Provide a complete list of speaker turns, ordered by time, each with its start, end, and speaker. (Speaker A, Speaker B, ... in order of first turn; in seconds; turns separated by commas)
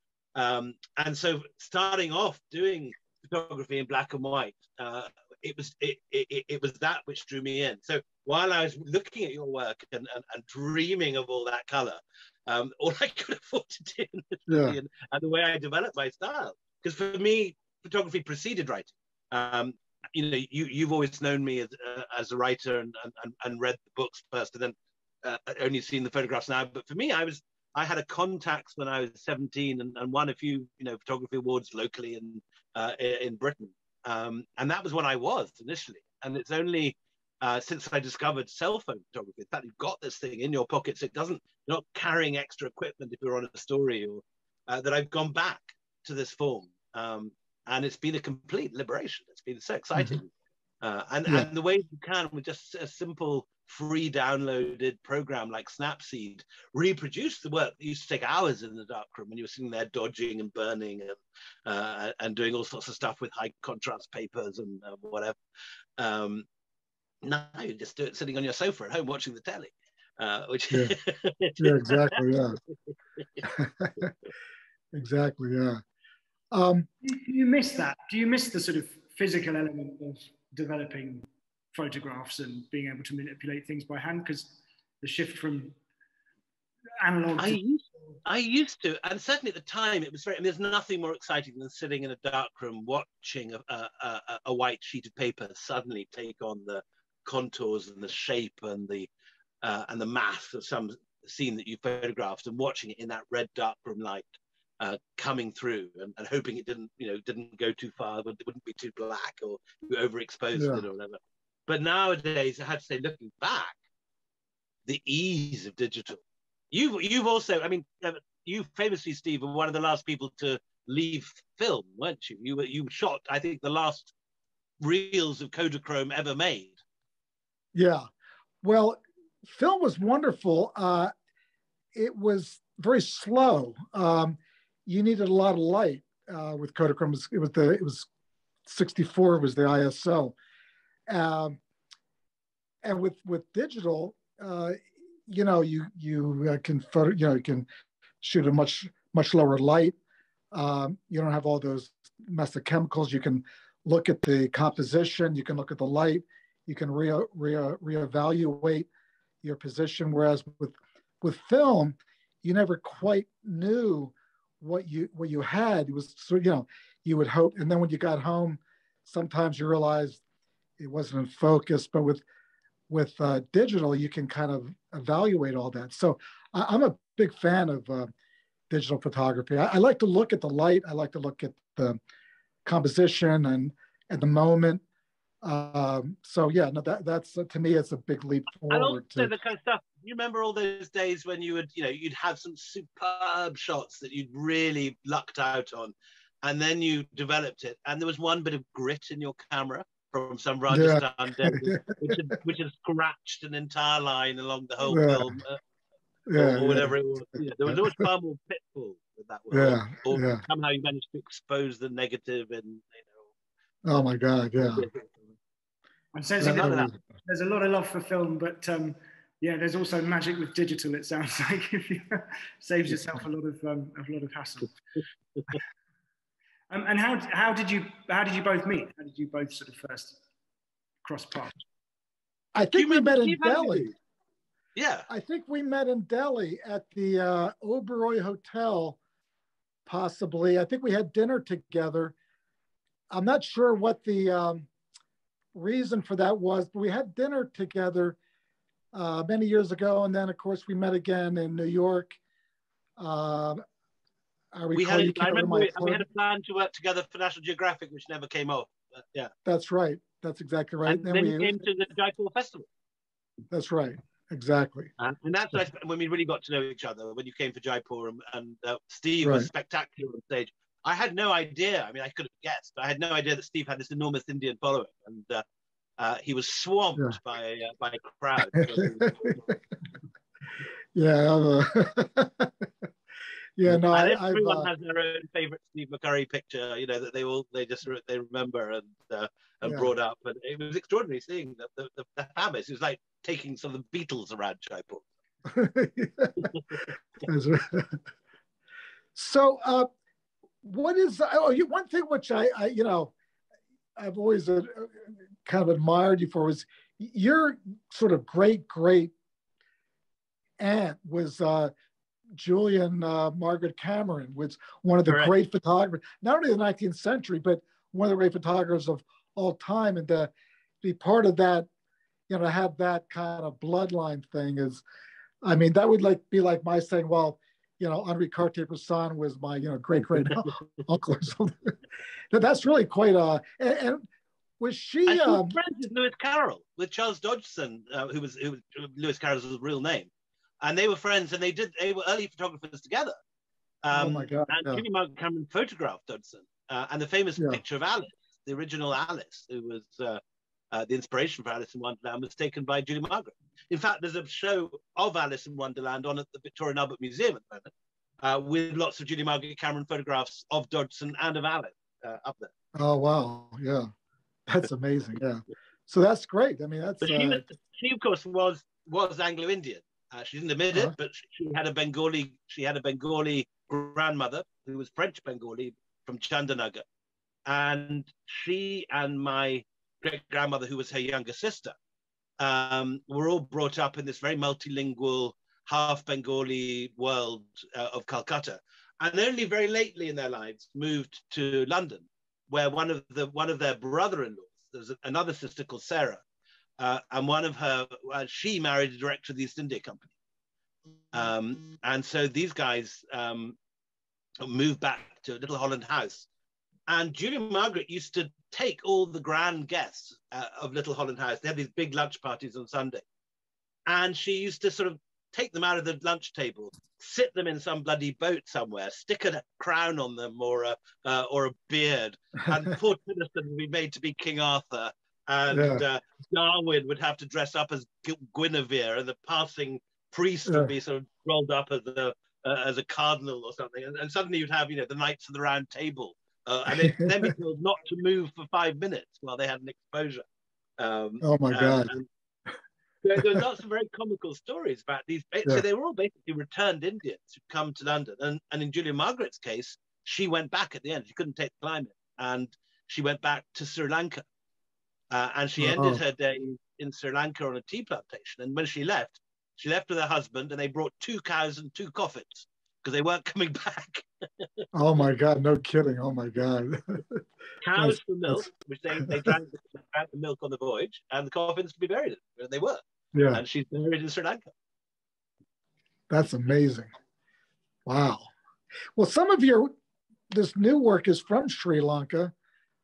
Speaker A: 0.3-50.3, Speaker B: 14.5-14.8, Speaker A: 50.8-65.4, Speaker A: 66.0-66.5, Speaker A: 67.2-72.2, Speaker B: 70.7-70.9, Speaker B: 71.6-72.6, Speaker B: 73.4-74.1, Speaker B: 74.9-75.8, Speaker B: 76.5-76.9, Speaker C: 77.0-85.8, Speaker C: 87.0-87.6, Speaker A: 87.4-99.1, Speaker A: 99.6-104.3, Speaker A: 104.8-113.8, Speaker B: 110.5-110.8, Speaker A: 114.8-124.1, Speaker A: 124.8-126.8, Speaker B: 127.7-128.0, Speaker B: 128.6-131.1, Speaker B: 131.9-138.1, Speaker B: 138.7-140.3, Speaker B: 141.1-141.6, Speaker B: 142.8-147.7, Speaker B: 148.2-150.0, Speaker B: 150.5-158.9, Speaker B: 159.4-170.2, Speaker B: 170.8-172.2, Speaker B: 172.9-178.1, Speaker B: 178.7-182.0, Speaker B: 182.6-184.8, Speaker B: 185.4-189.3, Speaker A: 188.7-205.6, Speaker B: 200.7-202.3, Speaker B: 204.8-205.3, Speaker B: 206.3-206.9, Speaker A: 206.3-213.3, Speaker B: 207.6-208.1, Speaker B: 209.5-210.4, Speaker B: 213.8-214.9, Speaker A: 214.6-215.3, Speaker C: 216.1-224.7, Speaker B: 216.4-217.0, Speaker A: 216.4-216.9, Speaker C: 226.7-230.2, Speaker C: 231.0-231.6, Speaker B: 232.5-233.9, Speaker A: 232.7-233.9, Speaker A: 234.8-235.1, Speaker B: 235.1-239.0, Speaker B: 239.8-242.1, Speaker B: 243.1-244.7, Speaker B: 245.5-248.2, Speaker B: 248.9-252.2, Speaker B: 253.0-253.6, Speaker B: 254.5-256.0, Speaker A: 254.7-259.3, Speaker B: 259.4-261.6, Speaker A: 260.9-262.7, Speaker B: 263.5-264.9, Speaker A: 265.0-275.4, Speaker B: 269.2-269.5, Speaker A: 276.0-279.6, Speaker B: 278.6-279.5, Speaker B: 280.9-282.7, Speaker B: 283.6-284.7, Speaker A: 283.9-295.1, Speaker B: 295.4-296.5, Speaker B: 297.2-298.0, Speaker B: 299.1-299.9, Speaker B: 300.6-303.1, Speaker B: 304.0-309.1, Speaker B: 310.6-311.7, Speaker B: 312.4-320.3, Speaker B: 320.8-321.7, Speaker B: 322.3-324.8, Speaker B: 325.4-331.7, Speaker B: 332.3-334.1, Speaker B: 334.6-335.5, Speaker A: 335.1-340.1, Speaker A: 340.6-343.1, Speaker A: 343.8-350.2, Speaker B: 343.9-344.8, Speaker A: 350.7-362.5, Speaker B: 362.7-363.9, Speaker B: 364.5-367.4, Speaker A: 367.0-376.8, Speaker A: 377.4-381.7, Speaker A: 382.4-396.2, Speaker A: 396.8-400.1, Speaker A: 401.1-403.6, Speaker A: 404.4-406.3, Speaker A: 406.9-413.0, Speaker A: 413.9-440.2, Speaker B: 425.5-425.8, Speaker B: 430.4-430.7, Speaker B: 436.8-437.3, Speaker A: 440.8-442.1, Speaker B: 441.2-441.9, Speaker A: 443.0-454.2, Speaker B: 443.2-443.4, Speaker A: 455.1-464.6, Speaker B: 455.6-456.0, Speaker B: 464.7-467.2, Speaker A: 467.6-472.8, Speaker B: 467.8-468.4, Speaker B: 469.1-469.3, Speaker B: 473.1-473.4, Speaker A: 473.3-474.5, Speaker B: 476.1-476.9, Speaker B: 477.9-478.3, Speaker B: 478.9-479.7, Speaker B: 480.3-482.3